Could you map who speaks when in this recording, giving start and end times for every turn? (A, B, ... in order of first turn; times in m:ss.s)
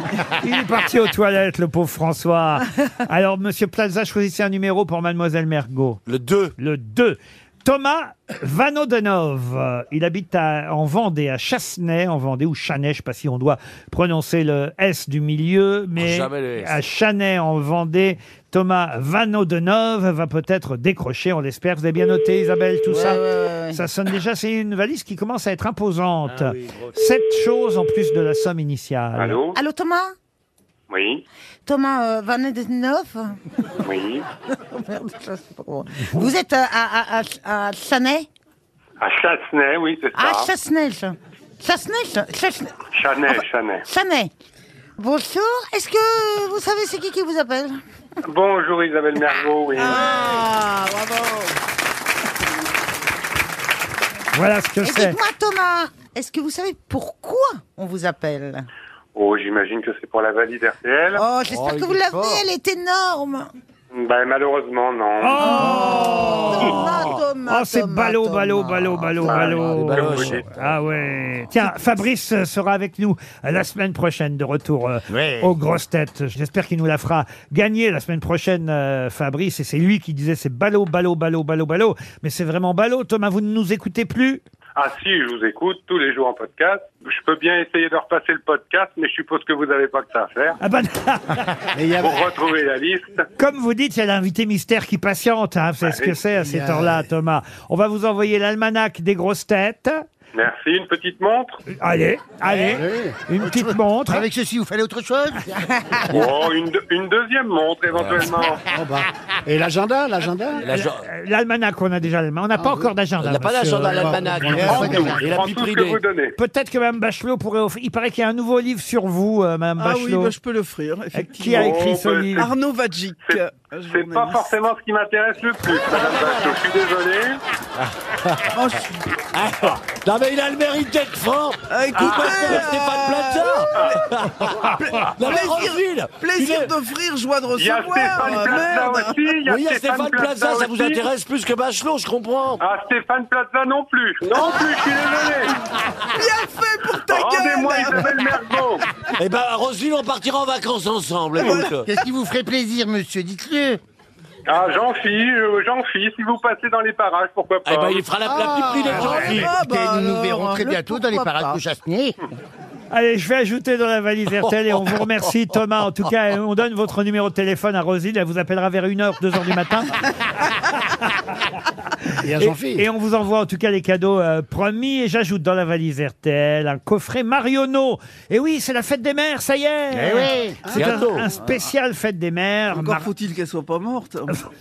0:00.3-0:06.0 A
0:06.1-0:06.6 B
0:06.6-0:23.2 A
0:16.0-0:16.8 B
0:22.9-0:23.8 C
0:23.7-0:29.4 A
0:29.2-0:29.6 D
0:29.6-0:30.1 C
0:30.9-0:31.2 D
0:31.6-0:33.4 C
0:33.8-0:34.2 D
0:34.7-0:38.3 C
0:39.0-0:40.5 D
0:40.2-0:42.8 C
0:42.9-0:43.8 D
0:43.9-0:44.3 C
0:45.0-0:47.8 C
0:48.3-0:50.2 D
0:49.8-0:51.3 C
0:49.8-0:51.4 E
0:54.3-0:55.2 A
0:54.8-0:58.7 C
0:59.2-1:01.2 D
1:01.2-1:03.5 C
1:01.5-1:02.4 B
1:03.9-1:05.5 D
1:05.2-1:06.8 A
1:05.4-1:09.7 C
1:06.3-1:07.2 B
1:07.4-1:24.4 A
1:09.3-1:10.4 D
1:09.4-1:10.7 B
1:15.1-1:15.5 F
1:24.8-1:30.6 D
1:30.6-1:31.5 A
1:31.7-1:32.3 G
1:32.0-1:33.2 D
1:33.4-1:40.0 A
1:35.8-1:36.2 D
1:36.4-1:37.0 G
1:40.4-1:41.6 D
1:41.7-1:44.2 A
1:42.5-1:43.2 G
1:43.4-1:45.5 F
1:46.1-1:48.6 D
1:47.9-1:48.2 B
1:48.7-1:50.6 G
1:50.6-1:51.0 B
1:50.6-1:54.5 A
1:52.6-1:52.9 G
1:53.2-1:56.0 B
1:53.8-1:55.2 G
1:54.4-1:55.4 F
1:54.7-1:56.4 D
1:56.4-2:00.4 A
1:59.8-2:04.6 E
2:01.2-2:02.5 A
2:01.5-2:02.5 D
2:03.3-2:07.4 D
2:05.9-2:06.6 B
2:08.5-2:09.0 E
2:09.3-2:16.7 B
2:11.7-2:14.0 E
2:14.6-2:19.3 E
2:17.6-2:21.0 D
2:19.4-2:22.6 B
2:22.6-2:25.5 D
2:26.1-2:28.2 E
2:27.0-2:28.9 D
2:29.2-2:31.9 B
2:31.4-2:31.7 E
2:31.4-2:33.8 F
2:34.5-2:38.1 D
2:37.6-2:39.5 B
2:38.3-2:38.9 G
2:38.8-2:42.2 F
2:39.0-2:40.8 E
2:40.6-2:41.4 C
2:42.9-2:50.0 A
2:52.2-2:52.8 G
2:52.4-3:03.1 A
2:59.9-3:00.7 F
3:00.7-3:00.9 G
3:00.7-3:01.3 B
3:02.7-3:04.4 E